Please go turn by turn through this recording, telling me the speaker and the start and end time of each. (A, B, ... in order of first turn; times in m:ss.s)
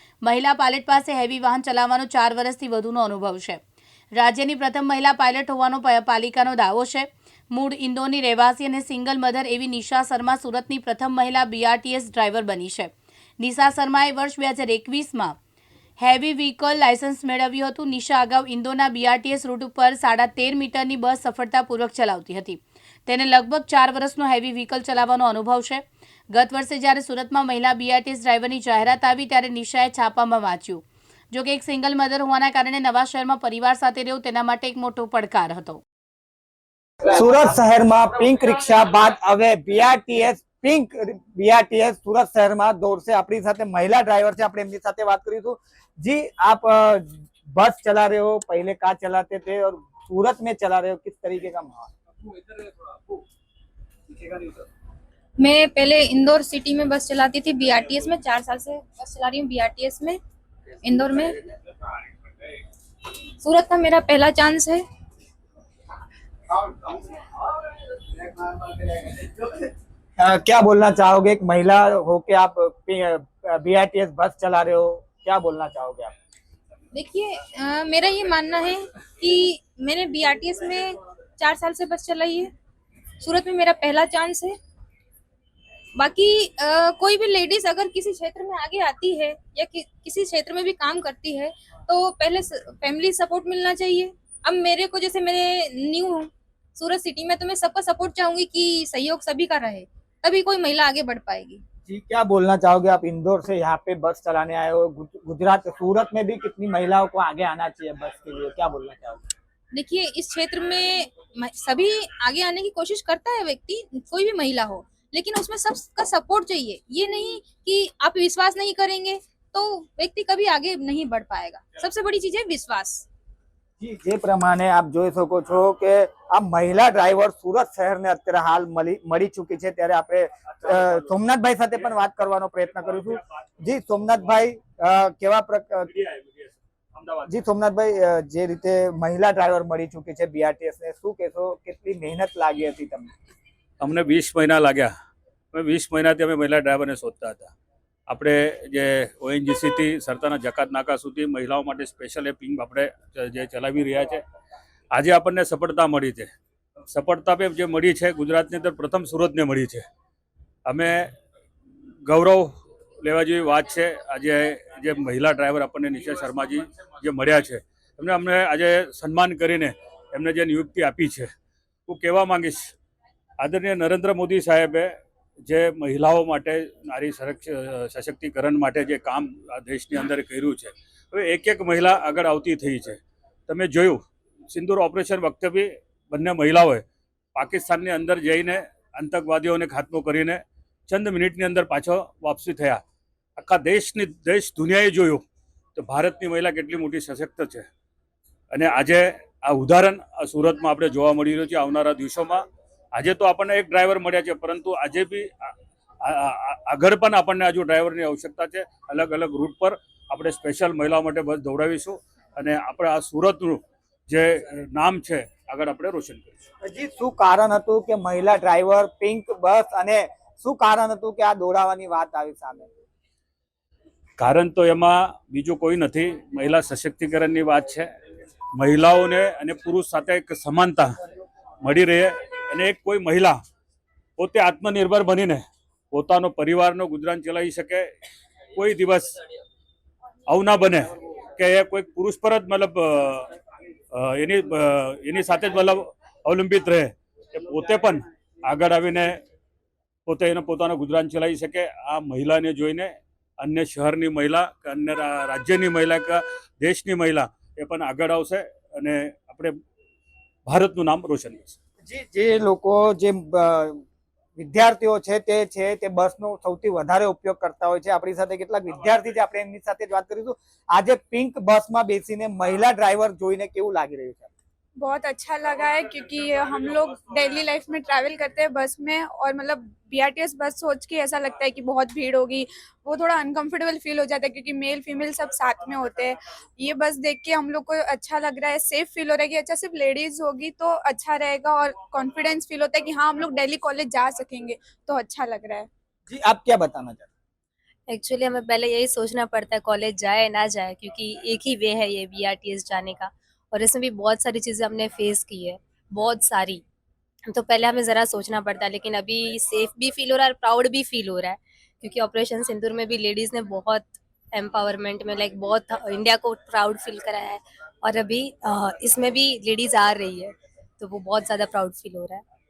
0:00.2-0:03.6 A
0:04.1-0:15.4 A
0:16.0-0:35.8 A
0:37.0-0:51.9 B
0:55.4-1:00.2 C
1:00.8-1:01.4 C
1:03.4-1:04.8 C
1:08.6-1:09.4 B
1:10.2-1:16.1 B
1:16.9-1:22.5 C
1:23.2-1:24.6 C
1:26.0-1:41.6 C
1:41.9-1:49.2 B
1:49.7-2:03.0 C
2:03.8-2:15.9 B
2:12.9-2:13.4 D
2:15.9-2:17.3 D
2:17.3-2:23.1 B
2:23.8-2:24.9 D
2:25.5-2:27.5 D
2:28.1-2:34.2 D
2:34.9-2:36.3 D
2:36.9-2:39.8 D
2:40.6-2:41.1 D
2:42.0-2:42.5 D
2:43.0-2:51.3 D
2:51.9-2:52.7 D
2:53.4-2:54.9 D
2:55.4-3:06.8 D
3:07.3-3:12.8 D
3:13.4-3:15.2 D
3:15.8-3:17.7 D
3:18.5-3:25.5 D
3:26.0-3:36.4 D
3:36.6-3:42.7 B
3:44.2-3:47.9 D
3:48.5-3:50.9 D
3:51.6-3:53.4 D
3:54.2-3:57.9 D
3:58.6-3:59.2 D
4:00.3-4:03.3 D
4:03.9-4:09.2 D
4:10.0-4:19.5 D
4:20.4-4:21.6 D
4:21.8-4:23.8 B
4:24.4-4:34.3 B
4:34.8-4:55.7 E
4:56.1-4:57.1 B
4:57.9-5:06.6 F
5:07.2-5:22.2 F